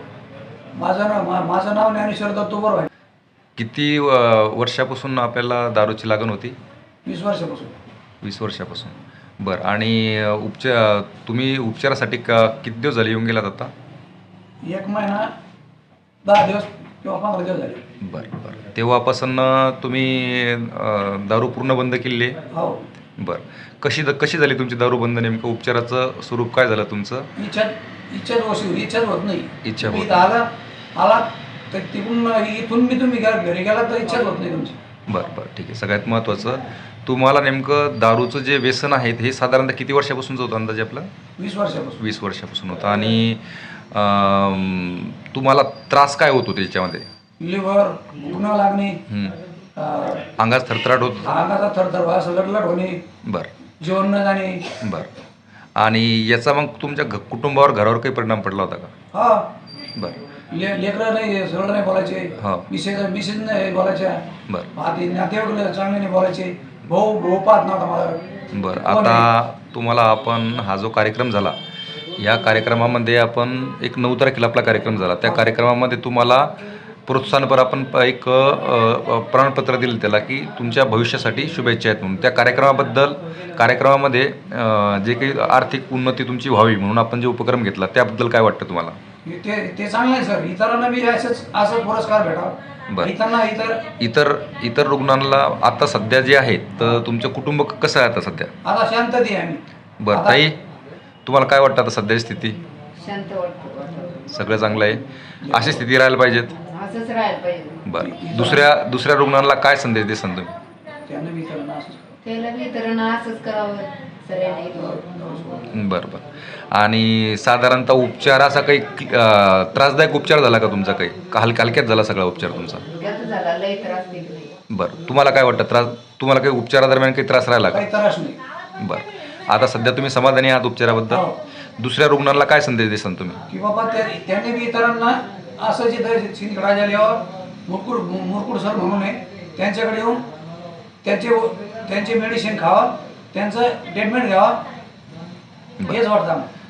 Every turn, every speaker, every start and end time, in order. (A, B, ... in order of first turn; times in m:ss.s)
0:00.8-0:02.9 A
0:03.6-0:06.6 B
0:07.0-0:07.8 A
0:08.2-0:13.7 B
0:14.6-0:15.3 A
0:16.2-0:17.8 A
0:18.0-0:22.4 B
0:22.5-0:22.9 A
0:23.2-0:27.3 B
0:27.4-0:34.8 A
0:29.6-0:30.2 B
0:35.1-0:41.1 B
0:41.4-0:42.0 A
0:42.0-0:47.0 B
0:47.4-0:49.0 A
0:49.1-0:49.4 B
0:49.8-0:50.3 A
0:50.4-0:51.4 B
0:51.2-0:53.0 A
0:53.2-0:53.5 B
0:53.8-0:54.7 A
0:54.8-0:55.1 B
0:55.8-0:58.9 B
0:59.1-0:59.5 A
1:00.0-1:00.2 B
1:00.5-1:08.2 A
1:02.4-1:02.7 B
1:08.5-1:11.6 B
1:08.8-1:09.3 A
1:12.2-1:16.5 B
1:17.1-1:29.0 B
1:29.2-1:33.9 A
1:34.0-1:38.5 B
1:38.6-1:40.5 A
1:40.0-1:40.6 B
1:41.3-1:42.6 B
1:43.0-1:44.3 C
1:44.3-1:46.6 B
1:45.4-1:45.8 A
1:46.6-1:47.9 C
1:47.8-1:50.5 B
1:48.0-1:48.7 A
1:51.1-1:52.2 A
1:52.2-1:55.0 C
1:54.8-1:55.7 A
1:55.7-2:02.8 B
2:02.9-2:04.6 C
2:04.7-2:07.8 B
2:07.7-2:08.4 A
2:08.8-2:11.3 B
2:11.1-2:11.4 A
2:11.8-2:13.4 B
2:13.5-2:20.3 A
2:21.0-2:24.6 A
2:25.9-2:26.5 A